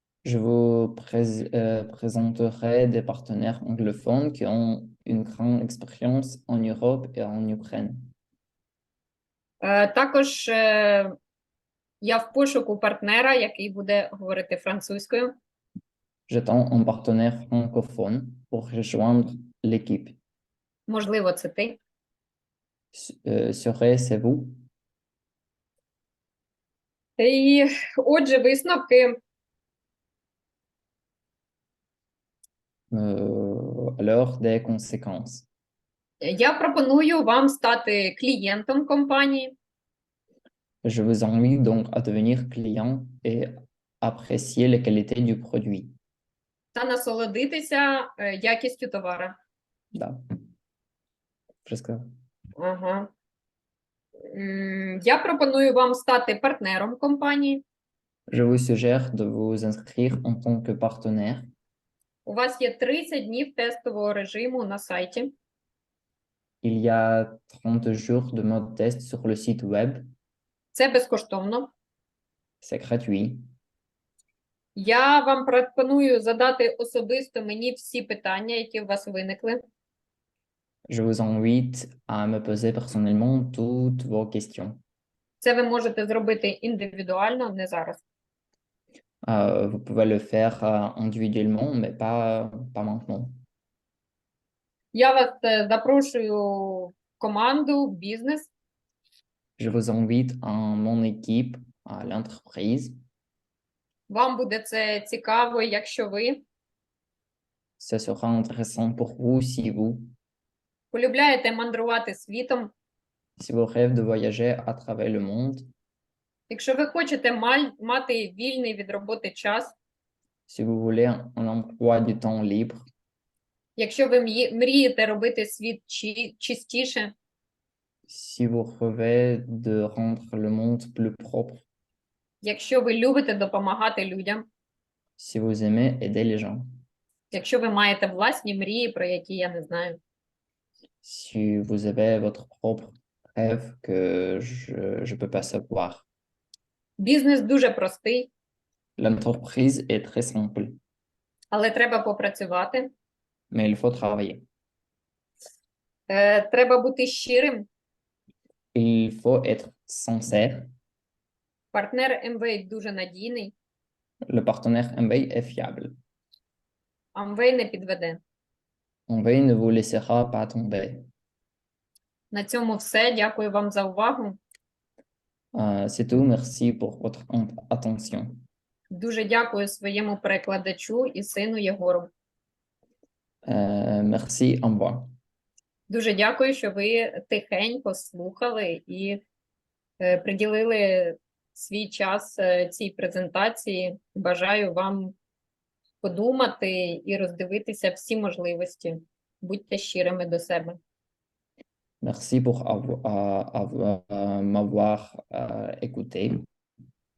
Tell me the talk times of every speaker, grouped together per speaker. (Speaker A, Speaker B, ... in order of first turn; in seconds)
Speaker A: 0.2-8.1, 16.3-20.2, 22.9-24.5, 32.9-35.5, 40.8-43.5, 44.0-45.9, 49.9-50.2, 51.6-52.0, 58.3-61.5, 66.6-70.1, 72.6-73.4, 80.9-84.8, 89.2-93.3, 99.6-102.9, 107.8-110.1, 113.4-115.7, 120.5-122.8, 128.1-131.6, 135.2-136.7, 141.0-146.1, 149.0-150.8, 153.5-154.4, 158.7-160.7, 164.3-165.9, 169.1-171.0, 175.5-178.4, 183.4-185.1, 202.0-206.4
Speaker B: 9.6-11.2, 12.0-15.3, 20.9-21.8, 27.2-29.2, 36.2-39.5, 46.7-49.4, 52.6-53.1, 54.3-57.6, 62.2-65.3, 70.7-71.7, 74.8-79.6, 85.4-88.0, 94.9-98.5, 104.1-106.4, 110.9-112.7, 116.5-119.8, 123.8-127.1, 132.4-134.5, 137.3-140.0, 147.0-148.3, 151.5-152.9, 156.1-157.7, 161.7-163.5, 167.1-168.2, 172.3-174.4, 178.9-182.1, 185.9-189.2, 190.0-195.1, 196.0-200.8